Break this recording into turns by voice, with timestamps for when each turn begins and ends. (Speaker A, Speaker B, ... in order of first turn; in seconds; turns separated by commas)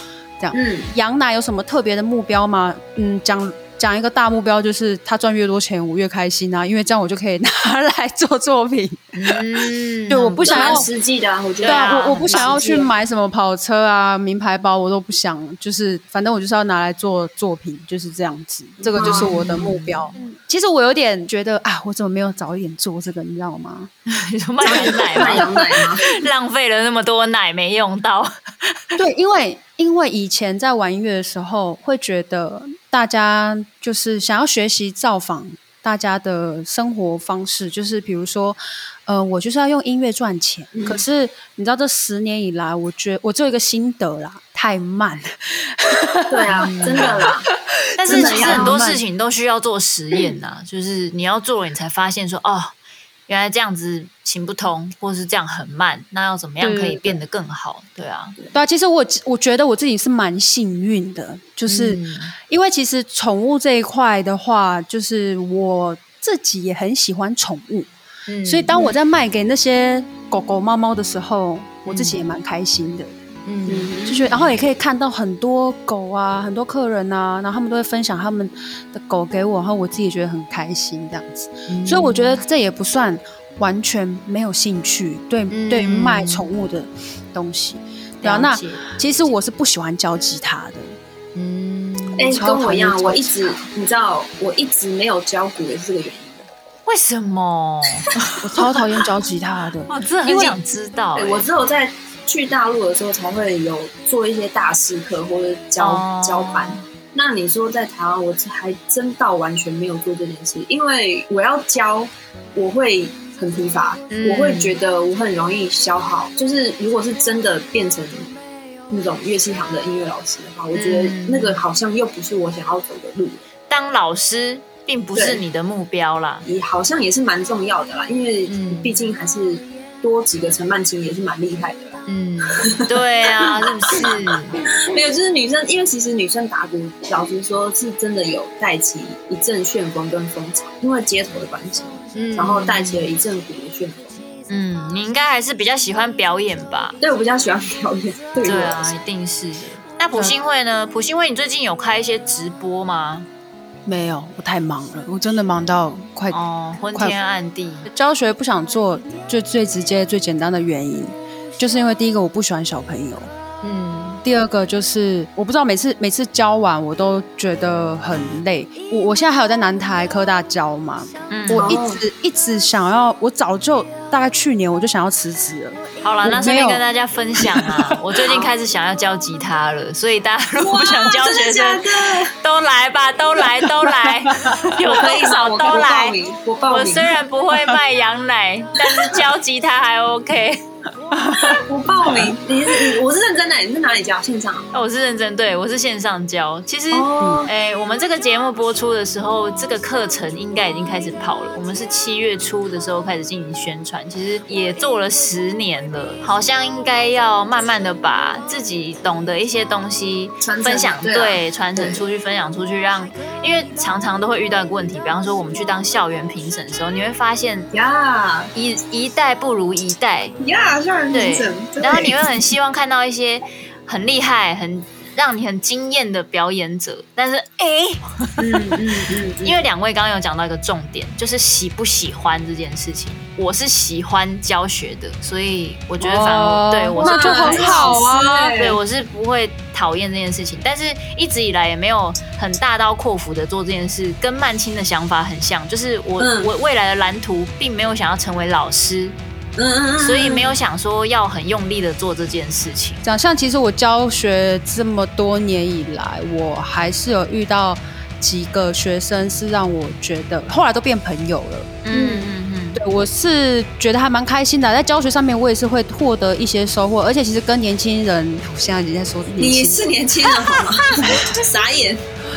Speaker A: 0.4-9.4, Speaker B: 0.5-0.9, Speaker C: 9.2-10.8, Speaker A: 10.1-10.9, Speaker B: 10.4-12.9, Speaker C: 11.6-12.6, Speaker A: 11.6-23.9, Speaker B: 18.8-19.4, Speaker C: 19.0-20.1, Speaker C: 24.1-28.8, Speaker B: 24.6-26.1, Speaker A: 24.7-25.5, Speaker A: 29.0-47.3, Speaker B: 40.7-41.0, Speaker B: 46.3-47.5, Speaker C: 46.5-47.3, Speaker A: 48.0-49.0, Speaker C: 48.0-52.8, Speaker B: 48.1-48.8, Speaker C: 53.3-58.4, Speaker A: 56.6-57.2, Speaker A: 58.5-67.9, Speaker C: 61.7-62.3, Speaker C: 68.3-68.7, Speaker A: 68.5-73.1, Speaker C: 71.9-72.2, Speaker C: 73.5-74.5, Speaker B: 73.7-74.2, Speaker A: 74.0-91.0, Speaker C: 81.7-82.3, Speaker C: 85.5-86.5, Speaker C: 88.2-88.9, Speaker C: 91.3-92.4, Speaker B: 92.2-96.5, Speaker A: 92.3-93.6, Speaker C: 96.9-98.7, Speaker A: 98.4-100.6, Speaker C: 99.9-101.5, Speaker B: 101.2-118.3, Speaker C: 105.8-106.8, Speaker C: 114.1-114.8, Speaker B: 118.9-123.4, Speaker C: 120.7-121.6, Speaker C: 123.7-126.5, Speaker B: 125.1-125.4, Speaker B: 126.5-132.0, Speaker C: 128.5-129.0, Speaker C: 132.1-134.6, Speaker B: 132.6-144.2, Speaker C: 142.1-143.1, Speaker C: 144.5-147.0, Speaker B: 147.0-148.9, Speaker C: 148.4-153.3, Speaker A: 153.9-156.4, Speaker C: 156.3-157.9, Speaker A: 157.9-163.3, Speaker C: 163.6-164.2, Speaker A: 164.2-176.8, Speaker C: 171.3-171.8, Speaker B: 171.5-172.0, Speaker C: 176.0-186.2, Speaker A: 177.4-177.9, Speaker B: 180.6-182.3, Speaker A: 183.9-184.7, Speaker B: 184.8-187.1, Speaker C: 186.7-190.6, Speaker A: 191.1-192.3, Speaker B: 191.6-194.7, Speaker C: 194.7-217.7, Speaker B: 196.9-197.5, Speaker B: 210.4-212.0, Speaker B: 217.7-218.5, Speaker C: 218.5-220.4, Speaker B: 220.4-222.4, Speaker C: 221.1-228.6, Speaker B: 228.4-229.6, Speaker C: 229.4-238.0, Speaker A: 236.0-238.6, Speaker B: 237.0-238.8, Speaker C: 238.6-249.2, Speaker B: 246.2-246.5, Speaker B: 249.6-250.5, Speaker C: 250.0-253.0, Speaker A: 253.0-269.8, Speaker C: 261.9-262.8, Speaker B: 269.4-272.0, Speaker A: 271.0-271.4